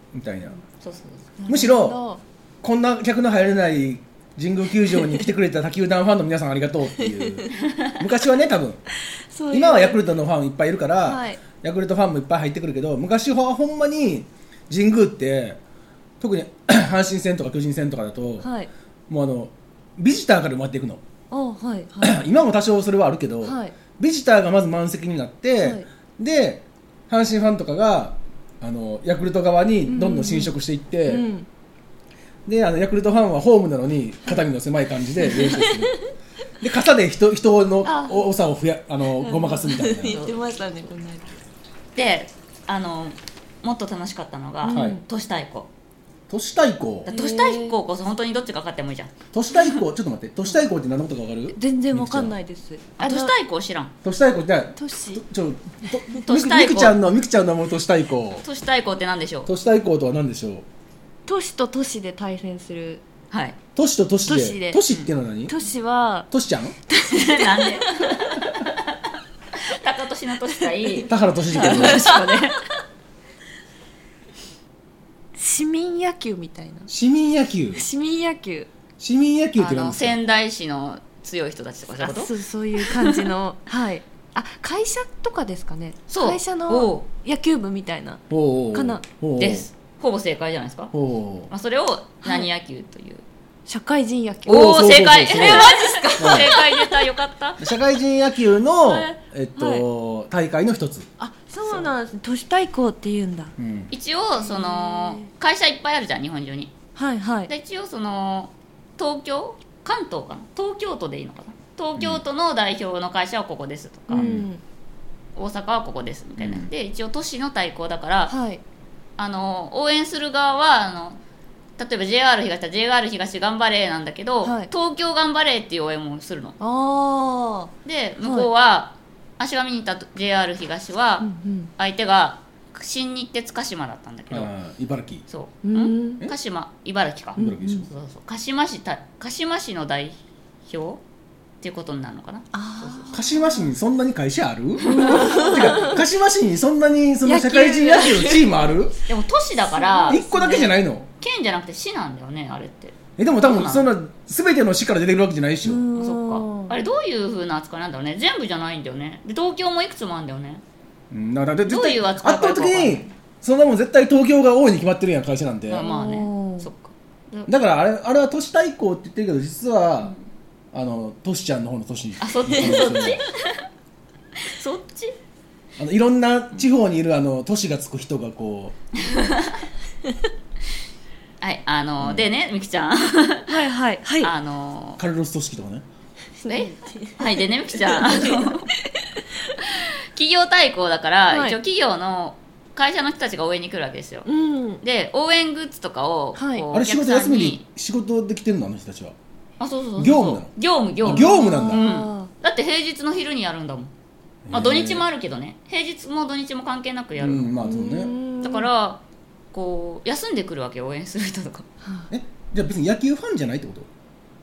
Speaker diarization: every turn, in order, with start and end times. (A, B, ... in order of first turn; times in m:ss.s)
0:00.1-0:00.6 A
0:00.8-0:01.2 B
0:01.4-0:02.2 C
0:01.5-0:02.0 A
0:02.6-0:08.8 A
0:07.6-0:08.0 B
0:09.3-0:10.0 C
0:09.5-0:15.6 A
0:11.0-0:11.4 C
0:16.2-0:18.5 A
0:18.4-0:18.7 C
0:19.1-0:21.0 A
0:21.3-0:22.2 C
0:22.0-0:31.2 A
0:23.4-0:23.7 C
0:29.9-0:30.5 C
0:31.1-0:31.5 C
0:32.4-0:36.0 A
0:35.3-0:36.0 C
0:36.6-0:40.3 A
0:37.8-0:38.3 C
0:39.2-0:41.3 C
0:40.1-0:40.4 B
0:42.0-0:45.7 B
0:44.6-0:45.0 C
0:44.7-0:45.0 A
0:46.3-0:47.1 A
0:47.1-0:49.1 B
0:47.1-0:47.8 C
0:49.3-0:52.3 A
0:51.6-0:53.3 C
0:53.0-0:53.9 B
0:54.0-0:58.4 A
0:54.8-0:55.2 C
0:55.9-0:56.2 C
0:56.2-0:57.0 B
0:58.4-0:59.5 B
0:59.5-1:00.6 A
1:01.3-1:03.0 C
1:03.3-1:03.6 B
1:03.8-1:05.5 A
1:04.2-1:04.8 C
1:05.5-1:06.3 C
1:06.3-1:06.7 A
1:06.9-1:08.2 C
1:07.0-1:09.0 B
1:09.6-1:12.6 B
1:11.0-1:12.1 A
1:11.5-1:12.6 C
1:15.4-1:16.9 C
1:16.9-1:17.8 A
1:17.7-1:18.7 C
1:19.0-1:20.2 A
1:19.6-1:23.3 B
1:22.0-1:29.0 C
1:26.1-1:27.0 B
1:28.3-1:29.7 A
1:29.4-1:30.9 B
1:30.9-1:31.5 A
1:31.5-1:33.2 B
1:32.2-1:32.5 C
1:33.7-1:36.9 C
1:34.4-1:37.6 B
1:34.5-1:36.5 A
1:37.6-1:41.1 A
1:38.8-1:39.1 B
1:39.6-1:39.8 C
1:41.2-1:43.5 C
1:43.6-1:43.9 A
1:43.9-1:46.7 B
1:44.4-1:45.2 C
1:47.0-1:47.5 C
1:47.5-1:54.3 B
1:52.0-1:52.2 A
1:54.1-1:54.6 C
1:54.1-1:54.5 A
1:55.4-1:58.3 B
1:56.4-1:56.7 A
1:58.3-1:58.6 C
1:59.2-2:01.2 B
2:01.8-2:06.6 B
2:04.4-2:04.7 C
2:06.6-2:08.5 C
2:07.8-2:14.5 B
2:11.2-2:11.7 C
2:14.3-2:15.2 A
2:15.3-2:21.0 B
2:15.6-2:16.2 C
2:17.4-2:17.8 C
2:17.4-2:17.9 A
2:21.6-2:23.2 B
2:22.5-2:23.7 C
2:23.1-2:28.9 A
2:24.8-2:25.9 B
2:24.9-2:26.0 C
2:27.2-2:28.5 C
2:29.1-2:33.9 B
2:29.7-2:30.7 C
2:30.1-2:31.1 A
2:33.2-2:35.8 A
2:35.6-2:36.8 C
2:36.0-2:40.6 B
2:41.1-2:45.8 A
2:41.7-2:43.1 B
2:45.7-2:47.5 B
2:45.8-2:46.7 C
2:47.5-2:50.1 A
2:50.7-2:53.2 A
2:52.2-2:53.6 B
2:54.4-2:55.2 B
2:55.8-2:58.8 A
2:59.0-2:59.6 B
3:01.4-3:03.6 B
3:03.5-3:04.3 C
3:04.2-3:05.0 B
3:05.0-3:05.8 A
3:06.4-3:09.1 C
3:06.5-3:08.7 B
3:09.6-3:14.3 B
3:11.3-3:11.6 C
3:14.2-3:14.8 C
3:14.8-3:17.6 B
3:16.4-3:16.7 C
3:16.7-3:19.1 A
3:19.6-3:23.9 B
3:20.0-3:21.9 A
3:21.0-3:22.3 C
3:24.4-3:25.0 A
3:24.5-3:27.5 B
3:27.2-3:28.1 A
3:27.6-3:28.7 C
3:28.4-3:29.0 B
3:29.5-3:31.6 B
3:31.8-3:32.1 C
3:32.1-3:33.9 A